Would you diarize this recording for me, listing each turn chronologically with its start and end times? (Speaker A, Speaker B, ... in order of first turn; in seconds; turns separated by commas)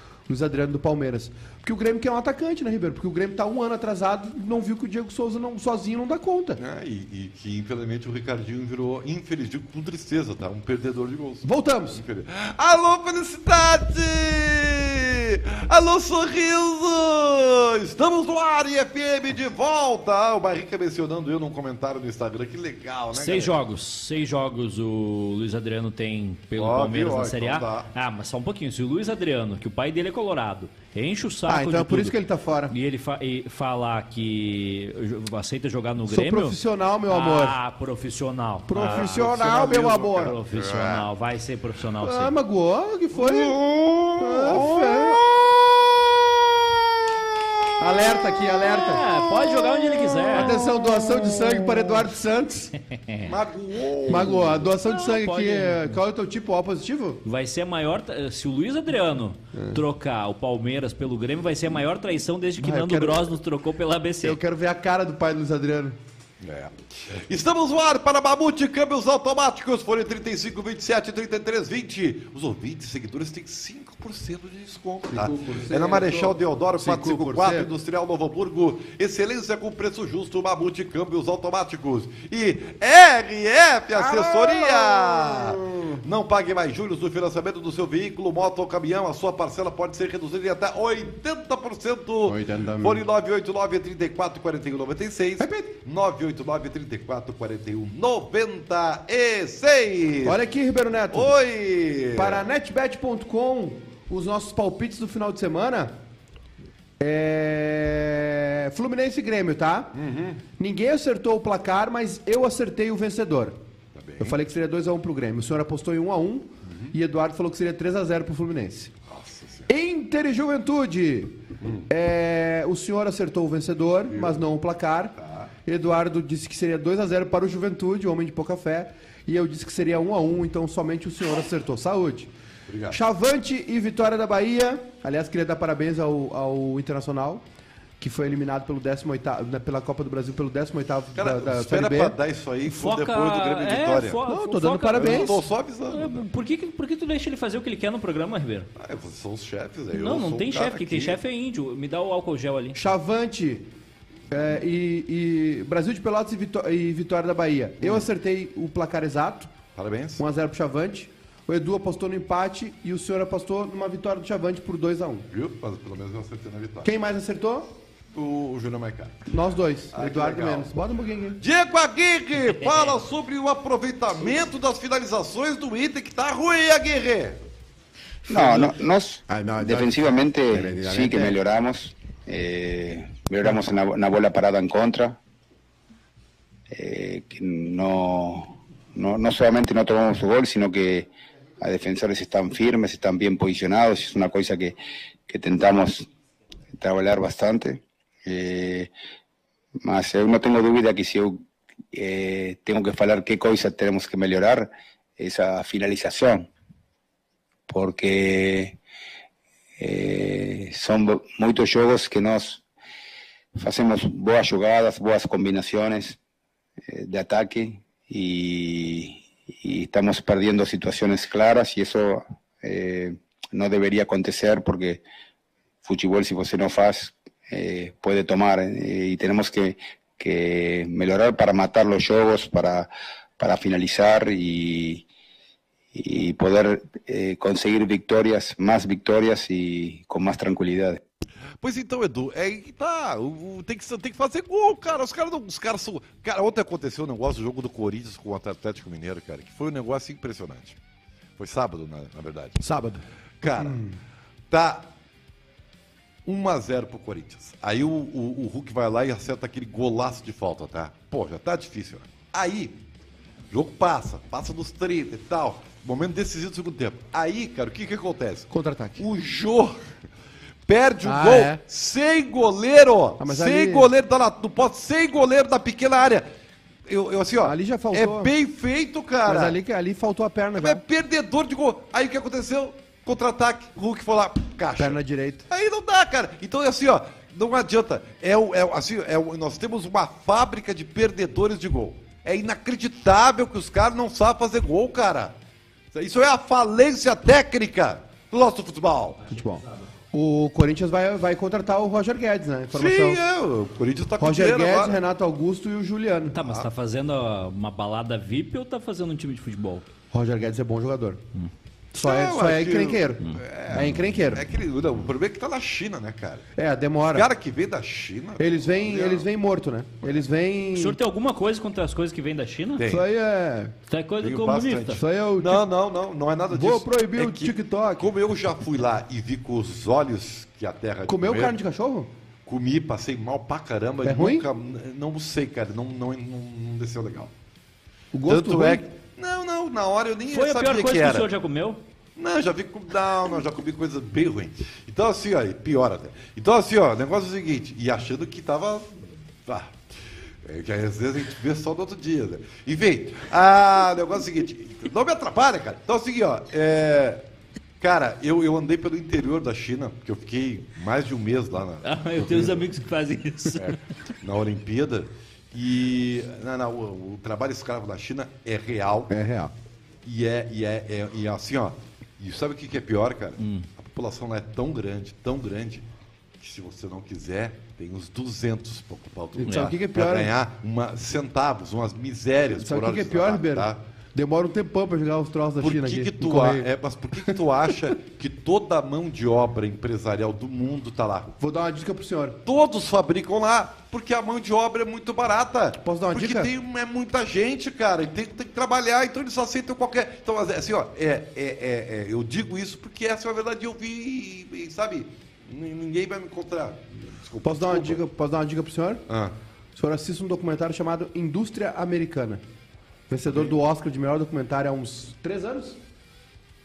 Speaker A: 0.3-6.6, Speaker B: 6.6-23.6, Speaker A: 11.4-12.0, Speaker C: 23.1-32.1, Speaker B: 26.6-27.9, Speaker A: 31.5-32.7, Speaker C: 32.7-39.3, Speaker A: 36.1-37.6, Speaker A: 38.7-40.4, Speaker B: 38.8-41.1, Speaker C: 40.0-42.4, Speaker A: 42.0-43.6, Speaker B: 43.1-45.3, Speaker A: 44.2-45.2, Speaker A: 47.8-49.0, Speaker C: 48.6-50.6, Speaker B: 50.2-51.8, Speaker A: 50.3-52.7, Speaker B: 53.2-54.7, Speaker A: 54.1-57.2, Speaker C: 54.8-56.0, Speaker C: 57.2-64.4, Speaker A: 62.6-63.3, Speaker A: 64.2-66.0, Speaker B: 66.4-100.4, Speaker A: 75.1-77.7, Speaker A: 84.0-86.0, Speaker A: 92.2-93.0, Speaker A: 95.4-95.7, Speaker A: 100.2-101.3, Speaker B: 101.1-102.4, Speaker A: 102.2-106.0, Speaker A: 107.0-110.0, Speaker B: 110.0-110.4, Speaker A: 110.5-113.6, Speaker B: 114.0-114.4, Speaker A: 114.2-118.9, Speaker B: 116.7-117.0, Speaker B: 119.1-119.7, Speaker A: 119.7-132.3, Speaker B: 121.6-121.9, Speaker B: 124.1-124.5, Speaker B: 125.2-125.5, Speaker B: 132.7-133.0, Speaker A: 132.9-137.4, Speaker A: 138.0-142.2, Speaker B: 141.2-144.2, Speaker C: 142.7-148.7, Speaker A: 144.3-145.4, Speaker B: 144.9-146.2, Speaker B: 148.8-151.2, Speaker C: 149.9-152.8, Speaker A: 152.8-153.7, Speaker A: 154.3-159.5, Speaker B: 157.8-158.1, Speaker B: 159.8-160.2, Speaker A: 160.2-165.3, Speaker B: 165.3-166.9, Speaker A: 166.8-167.7, Speaker B: 168.1-169.3, Speaker A: 169.3-171.4, Speaker B: 169.9-170.7, Speaker B: 171.4-177.4, Speaker D: 178.3-185.2, Speaker A: 178.3-178.7, Speaker A: 179.3-181.3, Speaker D: 186.7-191.1, Speaker D: 191.6-194.8, Speaker D: 195.3-196.1, Speaker D: 196.7-198.9, Speaker D: 199.8-206.5, Speaker D: 207.7-208.8, Speaker D: 209.8-212.6, Speaker D: 213.6-216.2, Speaker D: 216.9-225.0, Speaker D: 225.8-235.1, Speaker D: 235.9-241.0, Speaker B: 241.6-250.8, Speaker B: 251.4-252.6, Speaker A: 252.6-253.0, Speaker B: 253.4-253.8, Speaker A: 253.6-253.9, Speaker B: 254.5-254.9, Speaker B: 256.3-262.8, Speaker B: 263.5-269.8, Speaker A: 268.5-269.0, Speaker B: 270.7-276.3, Speaker A: 271.0-271.6, Speaker A: 273.2-273.9, Speaker B: 276.9-279.6, Speaker A: 277.4-278.3, Speaker A: 279.2-280.8, Speaker B: 280.6-295.4, Speaker A: 284.8-285.4, Speaker B: 295.9-299.2, Speaker A: 299.3-303.2, Speaker B: 302.7-305.0, Speaker A: 304.2-306.4, Speaker C: 306.3-309.9, Speaker B: 306.4-306.7, Speaker A: 310.1-311.2, Speaker A: 311.9-314.4, Speaker B: 311.9-316.5, Speaker A: 316.6-317.3, Speaker B: 317.1-319.3, Speaker A: 318.4-321.0, Speaker C: 320.7-322.9, Speaker B: 322.8-323.1, Speaker A: 322.9-323.7, Speaker C: 323.9-325.0, Speaker B: 324.2-331.6, Speaker A: 325.0-325.6, Speaker A: 326.5-328.1, Speaker A: 331.1-332.1, Speaker B: 332.5-337.3, Speaker A: 334.0-334.5, Speaker A: 338.1-338.9, Speaker B: 338.3-341.3, Speaker C: 340.3-341.8, Speaker B: 342.2-349.8, Speaker B: 350.4-357.2, Speaker B: 357.8-362.5, Speaker C: 361.8-363.8, Speaker B: 364.2-369.1, Speaker A: 369.1-369.5, Speaker B: 370.1-375.9, Speaker C: 373.4-373.7, Speaker B: 376.4-383.8, Speaker A: 379.4-380.3, Speaker A: 382.6-386.7, Speaker B: 385.6-391.4, Speaker A: 391.4-392.4, Speaker B: 392.4-408.0, Speaker A: 395.8-396.5, Speaker A: 407.4-409.1, Speaker B: 409.1-409.4, Speaker A: 409.8-412.4, Speaker A: 413.1-415.8